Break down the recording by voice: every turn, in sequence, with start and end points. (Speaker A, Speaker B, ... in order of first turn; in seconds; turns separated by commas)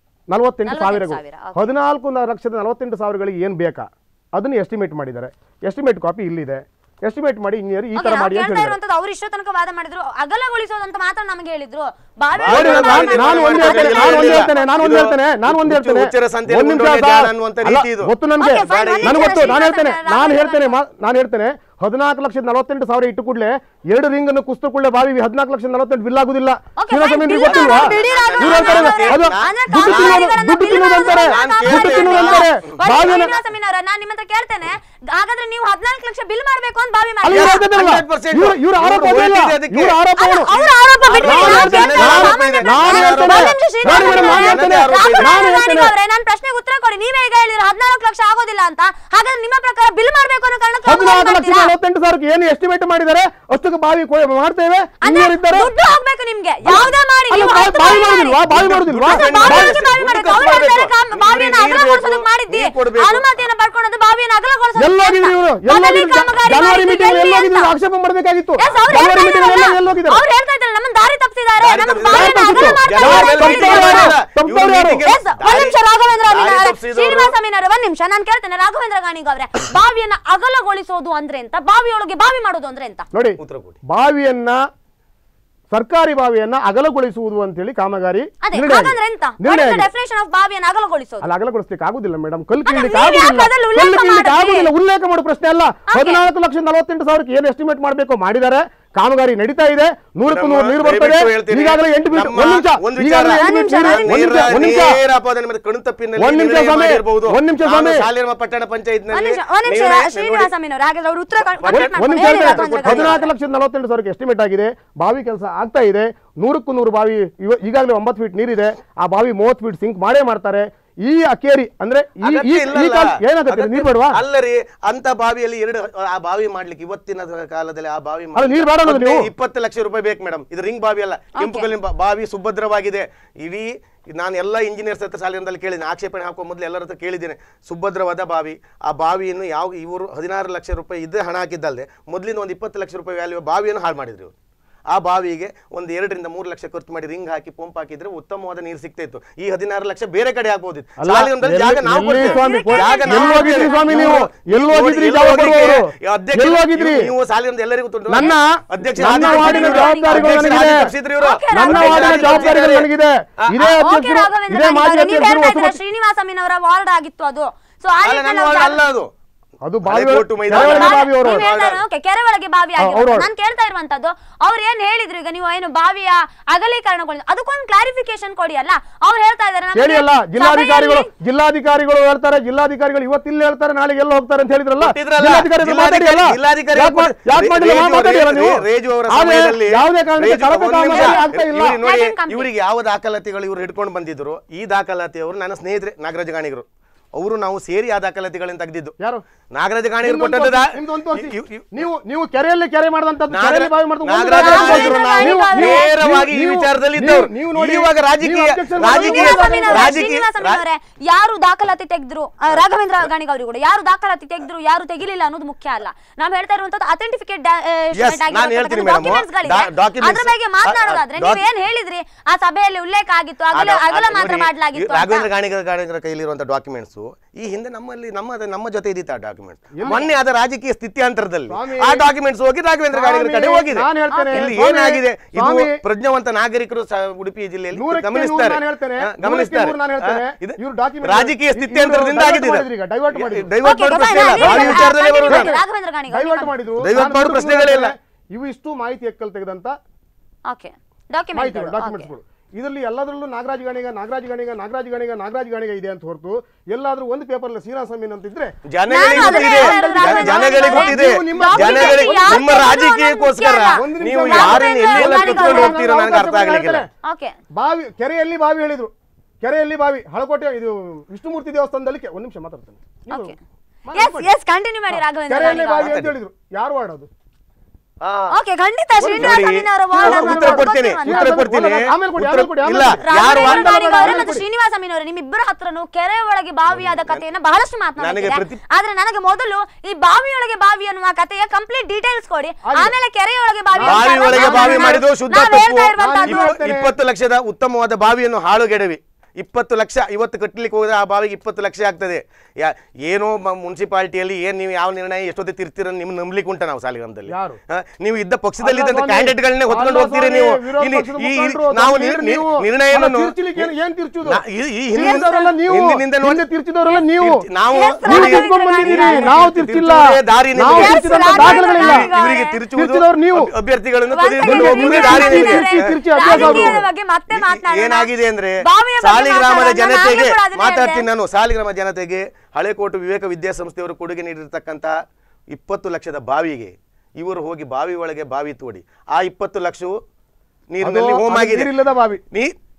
Speaker A: 0.3-8.8, Speaker B: 0.7-1.7, Speaker B: 8.0-14.7, Speaker C: 12.4-18.1, Speaker A: 12.4-33.3, Speaker B: 18.4-20.7, Speaker C: 18.7-19.6, Speaker B: 26.8-37.6, Speaker C: 27.4-33.3, Speaker A: 37.2-40.5, Speaker C: 37.3-40.0, Speaker B: 40.2-51.7, Speaker C: 40.5-45.5, Speaker A: 41.1-45.9, Speaker A: 50.9-55.7, Speaker B: 55.0-58.5, Speaker A: 56.6-59.8, Speaker C: 58.5-63.4, Speaker B: 59.1-67.7, Speaker A: 64.8-70.2, Speaker B: 68.6-74.1, Speaker C: 71.6-77.3, Speaker A: 72.1-75.0, Speaker B: 75.0-83.1, Speaker A: 83.1-84.6, Speaker C: 83.4-83.8, Speaker A: 85.7-89.9, Speaker B: 88.4-91.3, Speaker A: 91.2-105.0, Speaker B: 92.7-94.7, Speaker B: 95.9-96.2, Speaker C: 100.3-110.5, Speaker B: 103.3-104.5, Speaker A: 106.2-108.1, Speaker B: 109.1-113.3, Speaker C: 111.6-113.2, Speaker A: 111.7-124.2, Speaker C: 122.2-144.3, Speaker A: 128.3-129.3, Speaker B: 131.3-131.7, Speaker C: 144.9-163.6, Speaker A: 151.0-157.1, Speaker B: 152.1-154.2, Speaker A: 158.1-160.9, Speaker B: 159.0-162.8, Speaker A: 161.6-165.8, Speaker B: 163.5-168.8, Speaker C: 168.0-169.1, Speaker A: 169.6-171.4, Speaker C: 169.8-171.8, Speaker B: 170.5-181.1, Speaker A: 172.8-173.3, Speaker A: 179.7-191.8, Speaker C: 184.8-198.9, Speaker B: 190.9-191.3, Speaker B: 191.8-192.5, Speaker A: 199.0-199.2, Speaker C: 199.5-201.8, Speaker A: 200.0-210.0, Speaker C: 203.3-210.6, Speaker B: 204.4-205.9, Speaker B: 208.8-225.3, Speaker C: 217.9-221.4, Speaker C: 223.5-245.5, Speaker A: 229.7-230.1, Speaker A: 231.5-232.1, Speaker A: 232.9-235.8, Speaker B: 234.1-234.5, Speaker A: 237.7-243.5, Speaker B: 243.6-246.6, Speaker A: 244.3-249.8, Speaker C: 246.8-247.9, Speaker B: 250.5-252.1, Speaker A: 251.3-258.5, Speaker C: 258.6-266.8, Speaker B: 258.9-265.8, Speaker A: 259.1-262.8, Speaker A: 263.7-266.9, Speaker B: 267.0-267.4, Speaker A: 267.5-273.3, Speaker B: 273.1-273.3, Speaker A: 273.9-274.3, Speaker B: 273.9-275.9, Speaker A: 275.3-277.1, Speaker C: 275.4-276.1, Speaker C: 278.0-278.3, Speaker B: 278.3-281.4, Speaker A: 279.0-284.4, Speaker C: 279.1-284.2, Speaker B: 283.0-296.5, Speaker C: 286.7-287.2, Speaker C: 288.0-288.6, Speaker A: 292.6-292.9, Speaker A: 293.7-295.0, Speaker C: 293.8-313.7, Speaker A: 296.0-296.9, Speaker A: 307.3-307.6, Speaker A: 308.6-314.4, Speaker C: 314.2-316.4, Speaker A: 314.9-317.4, Speaker B: 314.9-315.6, Speaker C: 317.2-334.9, Speaker B: 317.7-319.5, Speaker A: 318.0-322.1, Speaker B: 320.7-322.6, Speaker A: 322.7-323.5, Speaker B: 324.1-328.1, Speaker A: 324.4-326.8, Speaker B: 328.6-331.0, Speaker C: 335.5-339.9, Speaker C: 340.7-341.7, Speaker A: 340.8-342.2